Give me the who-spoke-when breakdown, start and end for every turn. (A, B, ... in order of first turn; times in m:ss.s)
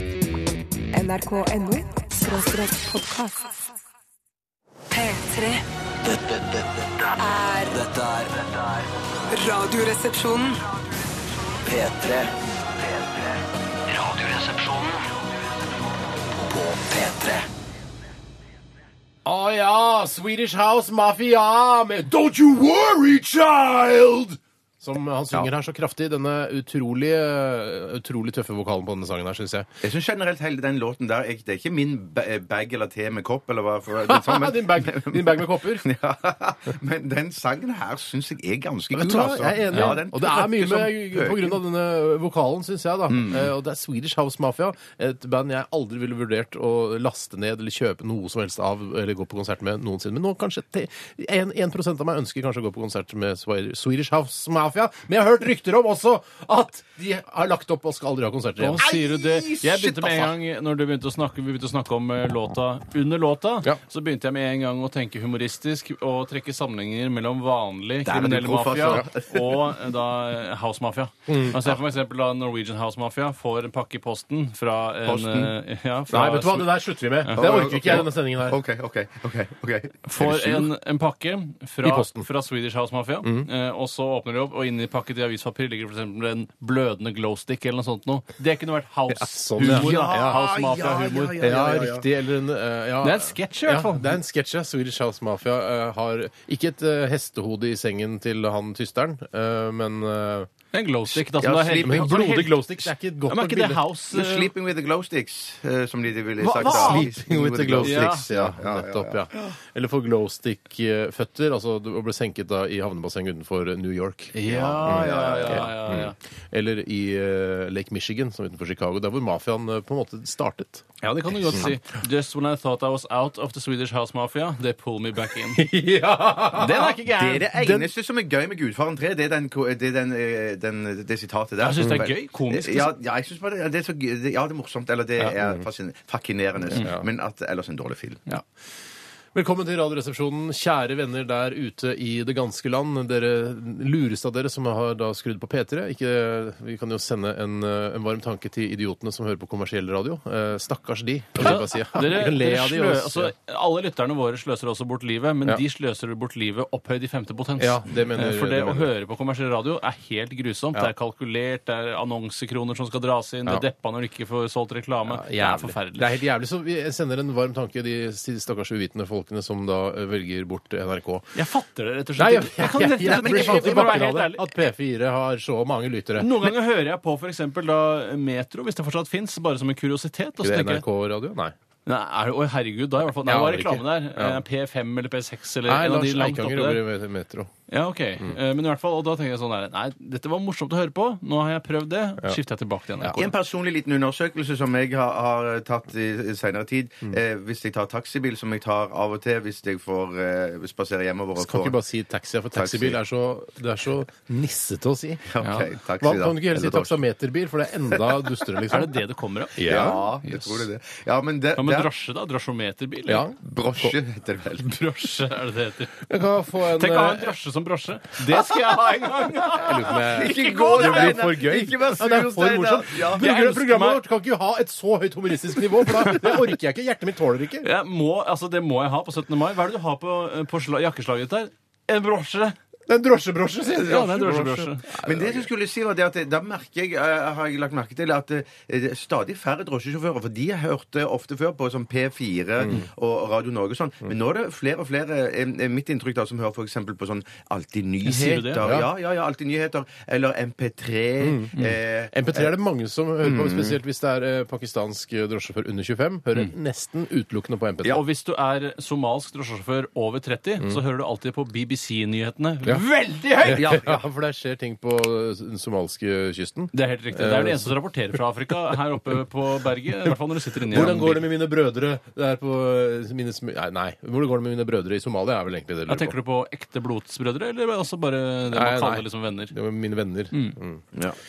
0:00.9-0:03.5 A
0:04.9-0:05.6 A
0:06.0-0:07.1 B
0:07.2-0:07.8 A
0:07.7-0:08.8 B
0:09.3-0:10.6 A
0:11.6-0:13.3 B
0:13.9-0:15.1 B
0:16.4-0:17.5 B
0:19.2-0:29.7 C
0:29.8-0:41.6 D
0:34.0-0:35.9 C
0:38.9-0:58.8 C
0:43.1-0:43.5 D
0:58.6-1:18.0 E
0:58.8-1:00.3 D
1:08.0-1:09.8 D
1:11.3-1:11.6 C
1:15.0-1:15.5 D
1:16.1-1:18.6 C
1:17.3-1:20.0 D
1:20.0-1:31.5 E
1:20.2-1:20.7 C
1:21.8-1:22.2 C
1:23.2-1:23.5 C
1:29.1-1:30.4 C
1:29.6-1:32.1 D
1:31.4-1:40.5 C
1:33.0-1:34.2 E
1:40.7-1:44.5 E
1:41.1-1:42.3 D
1:41.8-1:43.8 C
1:44.1-1:49.6 D
1:46.4-1:47.1 E
1:46.5-2:00.8 C
1:47.8-1:48.2 E
1:54.3-1:56.1 E
1:54.4-1:55.7 D
2:01.0-2:05.7 E
2:05.5-2:07.9 C
2:06.5-2:07.5 E
2:06.9-2:18.3 D
2:11.6-2:12.9 E
2:11.8-2:12.1 C
2:16.7-2:17.0 C
2:19.3-2:33.3 C
2:31.4-2:46.1 E
2:37.6-2:38.9 C
2:45.1-2:51.4 C
2:51.3-2:54.4 E
2:52.2-2:56.5 C
2:53.0-2:54.0 D
2:56.2-3:00.8 E
3:00.4-3:01.5 C
3:01.8-3:06.8 E
3:03.2-3:04.4 C
3:05.6-3:07.5 C
3:07.7-3:13.3 E
3:13.2-3:21.8 D
3:21.4-3:25.3 C
3:22.5-3:23.0 D
3:25.3-3:27.0 D
3:25.4-3:25.7 E
3:26.0-3:29.0 C
3:28.7-3:30.7 E
3:29.6-3:30.1 C
3:29.6-3:31.9 D
3:31.5-3:33.2 E
3:33.1-3:33.9 C
3:33.4-3:34.8 D
3:34.6-3:36.0 E
3:36.0-3:37.3 C
3:36.7-3:41.3 E
3:39.5-3:47.7 C
3:39.9-3:43.3 D
3:43.1-3:44.0 E
3:46.0-3:46.4 E
3:47.6-3:52.6 E
3:52.9-3:55.5 C
3:53.8-3:55.0 E
3:55.0-4:12.5 D
4:02.6-4:02.8 C
4:08.0-4:08.7 E
4:08.6-4:08.9 C
4:11.2-4:11.6 C
4:12.1-4:18.0 C
4:13.2-4:13.8 D
4:17.9-4:23.8 E
4:23.4-4:27.8 C
4:23.5-4:24.0 D
4:26.7-4:31.2 E
4:30.6-4:36.2 C
4:35.9-4:39.6 E
4:38.5-4:40.8 C
4:40.3-4:40.6 E